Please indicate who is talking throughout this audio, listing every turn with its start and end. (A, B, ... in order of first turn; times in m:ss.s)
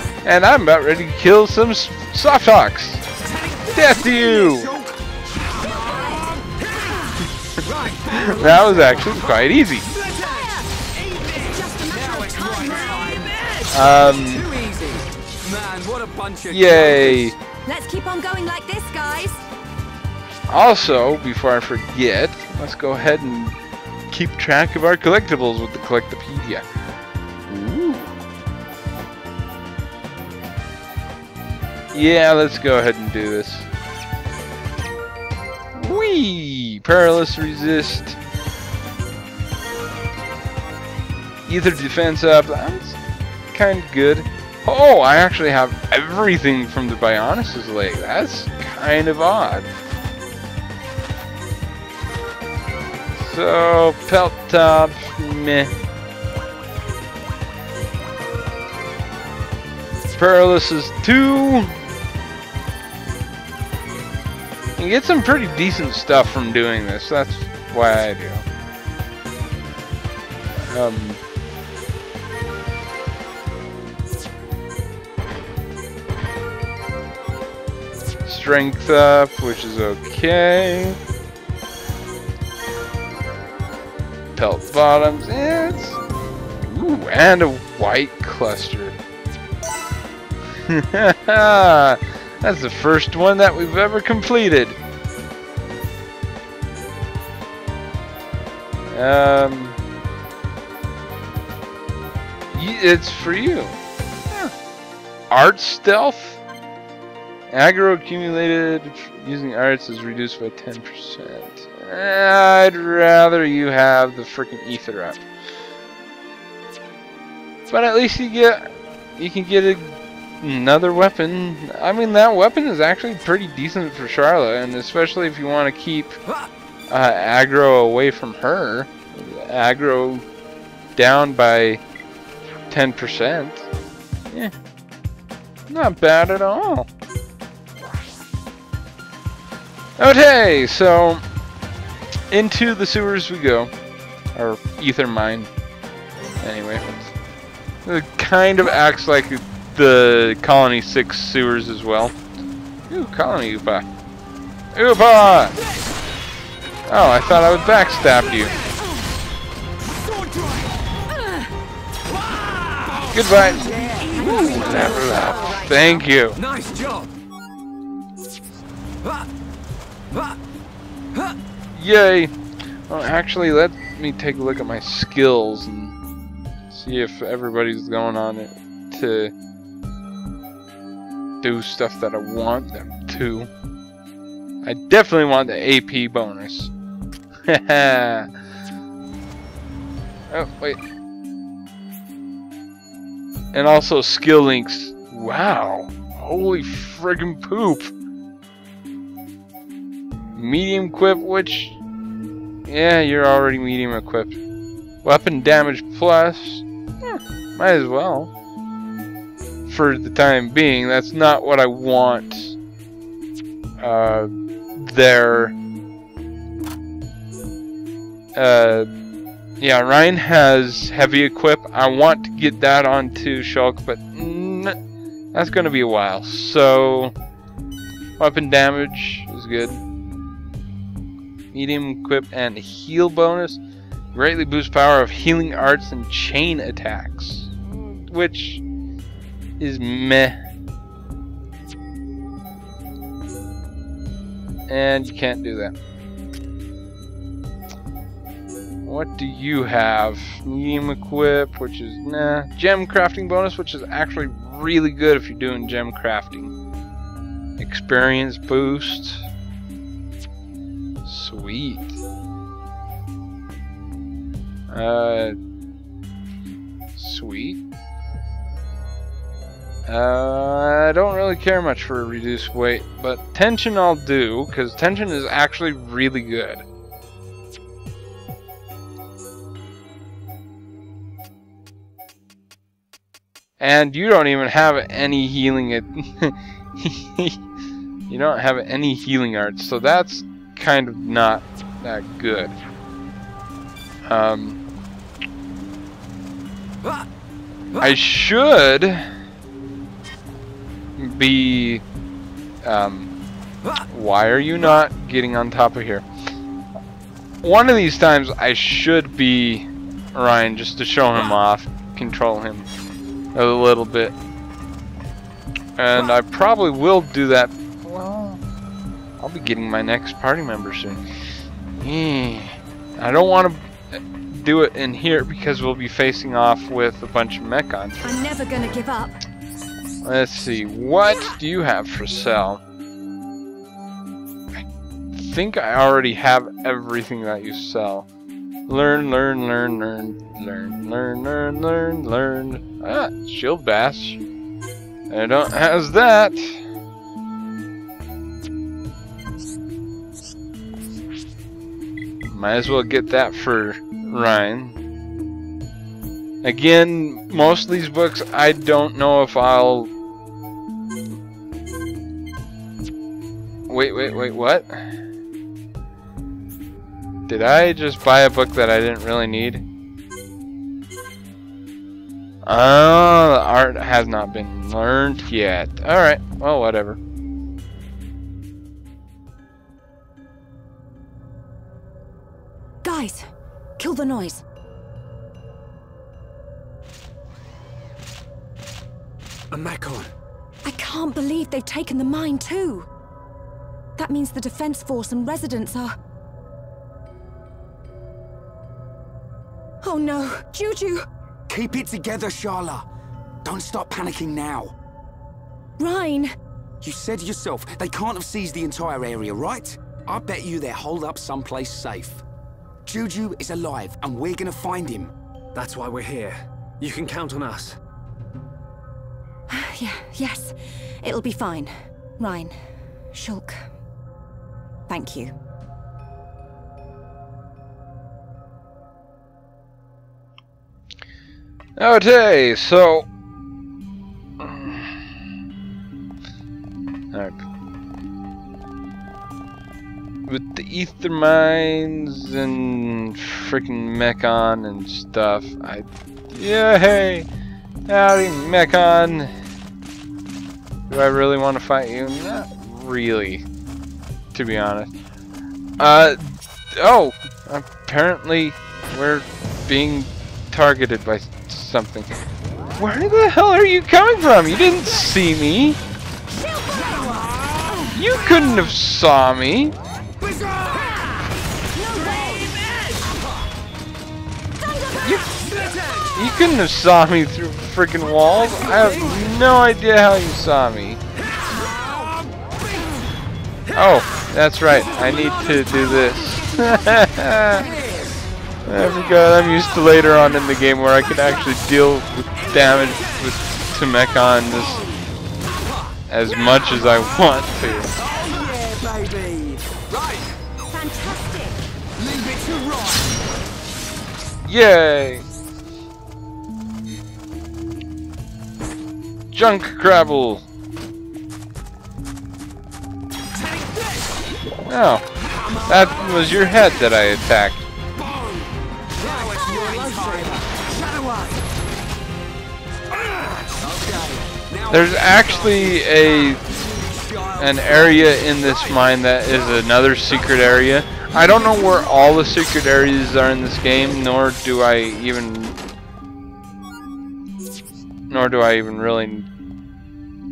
0:00.2-0:03.0 A
0:03.2-0:17.4 B
0:03.7-0:04.7 A
0:05.7-0:06.2 C
0:08.1-0:09.9 A
0:10.2-0:10.7 C
0:11.4-0:13.3 C
0:13.7-0:14.5 A
0:16.5-0:17.3 A
0:17.6-0:19.4 C
0:20.5-0:23.6 A
0:24.1-0:26.6 A
0:27.5-0:28.1 A
0:31.9-0:33.7 A
0:35.7-0:38.2 A
0:41.4-0:43.0 A
0:43.5-0:49.7 A
0:53.2-0:55.7 A
1:00.1-1:01.8 A
1:04.8-1:08.4 A
1:10.6-1:11.2 A
1:18.2-1:21.0 A
1:24.3-1:26.0 A
1:26.6-1:29.0 A
1:30.7-1:34.8 A
1:38.9-1:39.8 A
1:42.5-1:43.8 A
1:45.3-1:46.4 A
1:47.5-1:55.2 A
1:57.7-1:58.6 A
1:59.2-2:06.2 A
2:06.9-2:10.2 A
2:11.0-2:11.8 A
2:12.7-2:13.7 A
2:15.7-2:16.9 A
2:20.0-2:21.2 A
2:22.3-2:23.7 A
2:24.3-2:25.5 A
2:26.4-2:27.1 A
2:27.8-2:32.2 A
2:32.9-2:33.8 A
2:34.7-2:35.6 A
2:36.9-2:38.5 A
2:39.8-2:40.7 B
2:41.1-2:41.5 C
2:42.3-2:45.6 B
2:43.1-2:43.6 A
2:44.1-2:46.0 C
2:44.2-2:46.4 A
2:46.4-2:47.1 D
2:51.7-2:52.3 A
2:52.9-2:56.0 A
2:56.7-2:59.3 A
3:01.4-3:03.5 A
3:04.6-3:06.7 A
3:07.5-3:08.3 A
3:10.3-3:10.8 A
3:13.5-3:17.9 A
3:20.4-3:21.8 A
3:22.6-3:24.4 A
3:25.0-3:28.3 A
3:29.7-3:32.6 A
3:33.8-3:35.5 A
3:38.3-3:38.9 A
3:39.6-3:44.8 A
3:45.3-3:47.1 A
3:48.2-3:49.8 A
3:51.5-3:53.6 A
3:54.1-3:58.6 A
3:59.6-4:00.4 A
4:04.7-4:05.7 A
4:08.8-4:16.5 A
4:17.6-4:19.2 A
4:21.0-4:22.0 A
4:24.7-4:25.4 A
4:27.0-4:27.6 A
4:29.9-4:36.6 A
4:43.6-4:47.4 A
4:48.1-4:52.6 A
4:54.1-4:54.6 A
4:57.8-4:59.1 A
5:01.0-5:01.8 A
5:02.6-5:03.1 A
5:03.9-5:06.0 A
5:07.4-5:12.7 A
5:13.3-5:14.1 A
5:15.8-5:18.4 A
5:19.2-5:21.0 A
5:21.8-5:23.7 A
5:24.3-5:28.1 A
5:28.0-5:29.2 C
5:30.0-5:32.6 A
5:35.1-5:38.1 A
5:38.7-5:44.2 A
5:45.1-5:46.6 A
5:52.2-5:54.8 A
5:56.4-5:59.9 A
6:03.7-6:04.9 A
6:07.3-6:09.6 A
6:12.4-6:17.0 A
6:22.8-6:23.3 C
6:23.8-6:24.4 C
6:29.5-6:30.1 D
6:30.6-6:32.9 C
6:34.0-6:35.9 C
6:39.8-6:41.0 C
6:41.5-6:42.8 B
6:43.4-6:44.7 B
6:45.8-6:46.3 C
6:46.8-6:52.2 B
6:52.8-6:55.1 B
6:55.5-6:57.8 D
6:59.5-7:02.6 C
7:03.1-7:03.6 C
7:04.9-7:05.3 C
7:11.8-7:13.1 A
7:14.4-7:14.9 A
7:17.1-7:17.4 A
7:20.3-7:27.3 A
7:27.9-7:29.3 A
7:30.9-7:33.4 A
7:34.3-7:34.9 A
7:35.8-7:42.1 A
7:42.8-7:45.8 A
7:46.4-7:47.1 C
7:46.8-7:47.9 B
7:47.9-7:49.7 A
7:50.2-7:51.3 B
7:51.7-7:52.5 C
7:51.9-7:53.2 B
7:55.0-8:01.0 A
7:55.7-7:56.1 B
8:01.4-8:02.4 B
8:03.7-8:07.7 A
8:07.6-8:08.2 B
8:08.6-8:14.8 A
8:16.1-8:17.9 A
8:18.0-8:20.4 B
8:20.7-8:21.6 C
8:22.0-8:23.2 B
8:24.4-8:25.2 A
8:29.3-8:30.4 A
8:33.3-8:34.2 B
8:34.7-8:35.0 A
8:35.6-8:37.7 A
8:38.0-8:41.4 B
8:39.6-8:40.3 D
8:43.0-8:45.9 B
8:44.7-8:46.5 A
8:46.6-8:47.8 B
8:47.4-8:55.6 A
8:58.1-8:59.3 A